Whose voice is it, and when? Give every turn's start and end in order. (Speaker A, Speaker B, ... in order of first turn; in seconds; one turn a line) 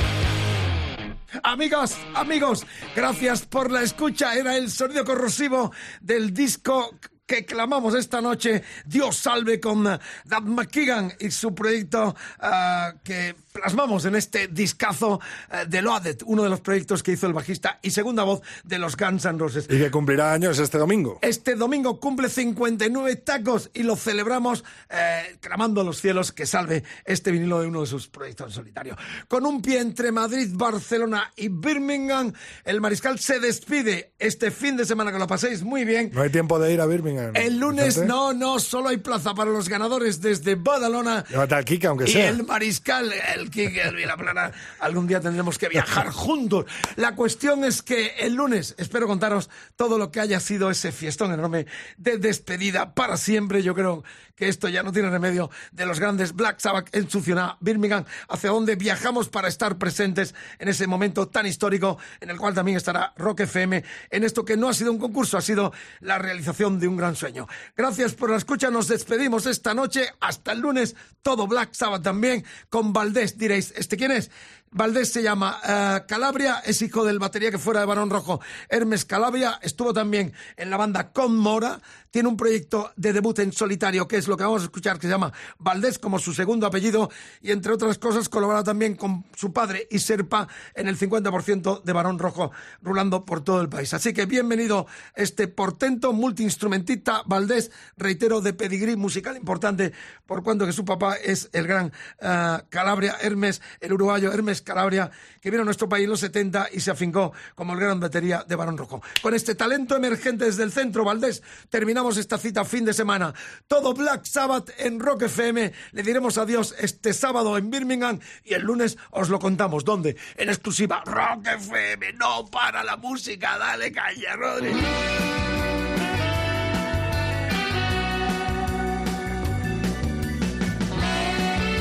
Speaker A: 1.4-19.7
Speaker B: 19.7-21.2
Speaker A: 21.2-36.2
Speaker B: 36.1-38.1
Speaker A: 37.3-41.3
Speaker B: 41.3-42.4
Speaker A: 42.0-124.9